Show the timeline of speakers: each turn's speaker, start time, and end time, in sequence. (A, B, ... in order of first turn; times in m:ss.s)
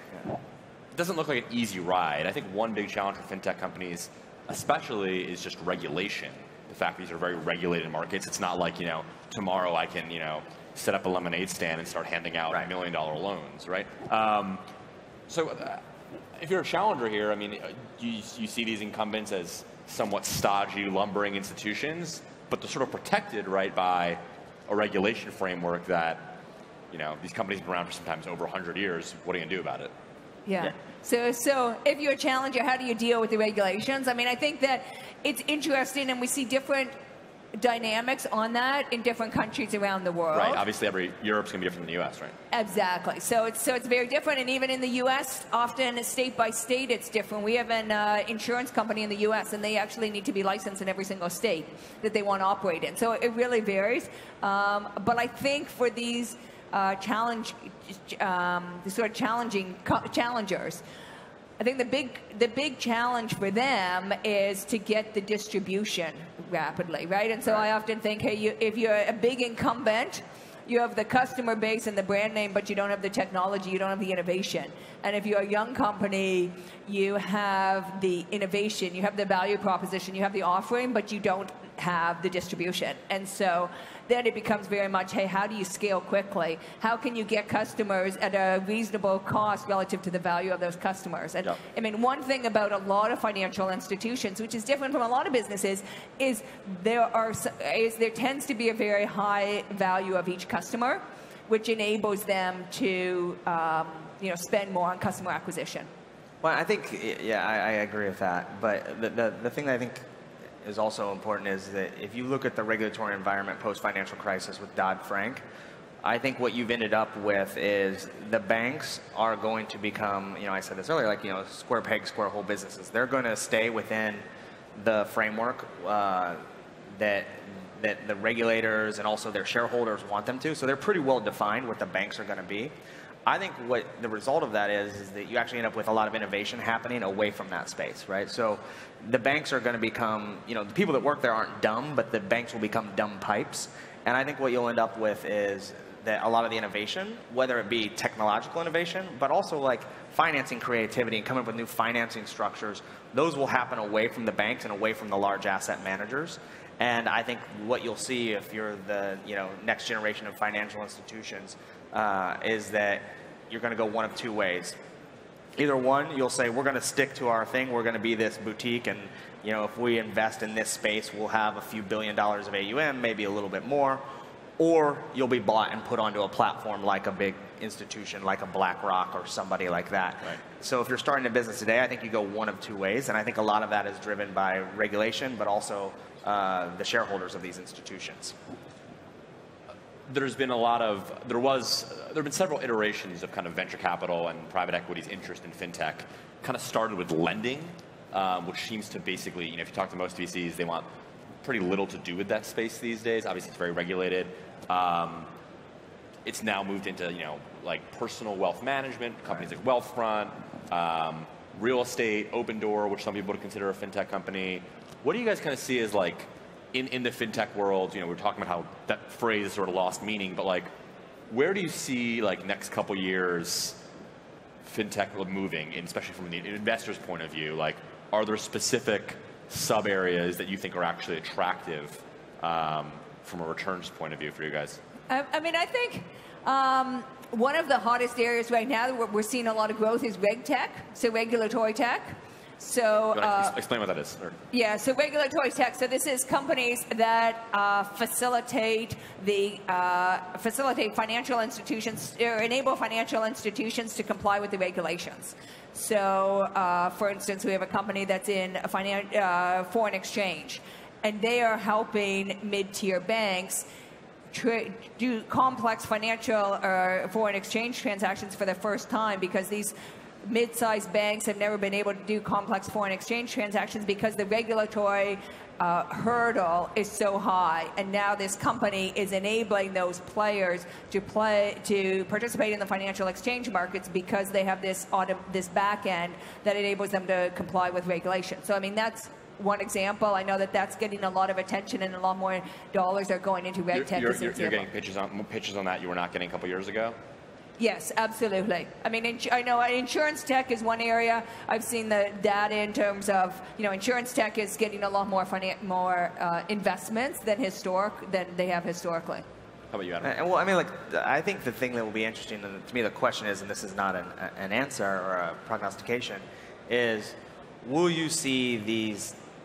0:00.9-0:14.6 A
0:15.3-0:15.8 A
0:16.4-0:26.4 A
0:26.9-0:29.9 A
0:30.4-0:36.9 B
0:37.5-0:40.6 B
0:40.3-0:42.3 A
0:42.5-1:00.8 B
1:01.6-1:45.9 B
1:46.4-1:50.0 C
1:50.6-1:55.4 C
1:56.0-2:04.2 C
2:04.8-2:06.4 C
2:07.0-2:12.7 C
2:13.2-2:44.8 C
2:45.6-2:54.0 C
2:54.6-3:08.3 C
3:10.1-3:20.8 A
3:21.4-3:25.3 A
3:26.2-3:40.7 A
3:41.3-3:43.8 A
3:44.6-3:54.8 A
3:55.1-4:03.5 B
4:03.1-4:04.4 A
4:04.5-4:23.6 B
4:24.3-4:54.7 B
4:53.7-4:57.0 A
4:57.6-5:09.2 B
5:09.7-5:10.1 A
5:10.0-5:19.2 C